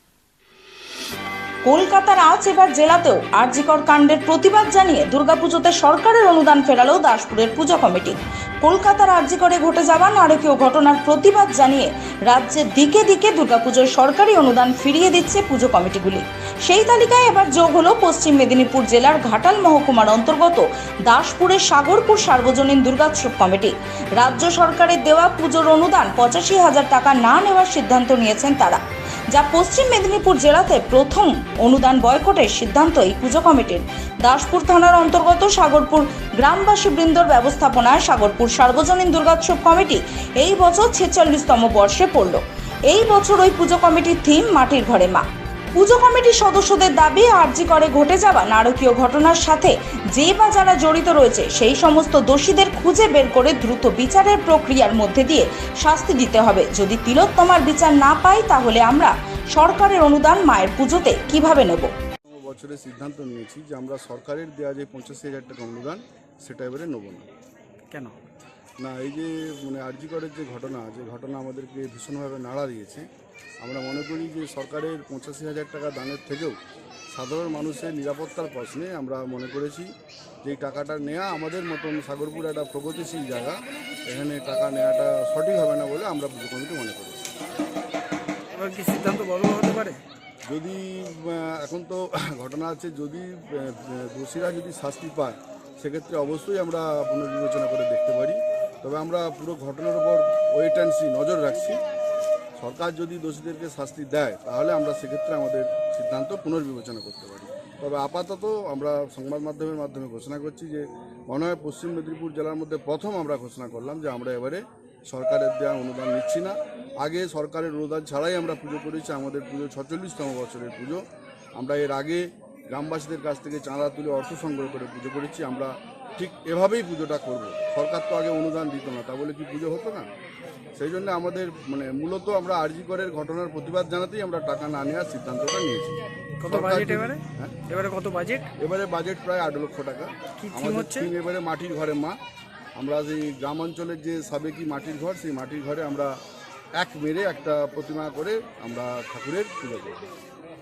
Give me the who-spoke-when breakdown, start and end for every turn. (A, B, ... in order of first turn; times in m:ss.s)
0:01.7-1:01.9 A
1:02.2-1:07.3 B
1:07.9-1:08.2 C
1:08.8-1:13.1 B
1:13.6-1:16.6 B
1:17.1-1:19.9 B
1:20.4-1:27.4 B
1:28.5-1:30.0 C
1:30.5-1:41.8 B
1:42.6-2:01.0 B
2:01.6-2:10.1 B
2:10.8-2:15.9 B
2:16.4-2:18.5 C
2:16.5-2:17.6 B
2:18.6-2:22.2 B
2:20.4-2:21.1 C
2:22.8-2:26.2 B
2:26.8-2:30.1 B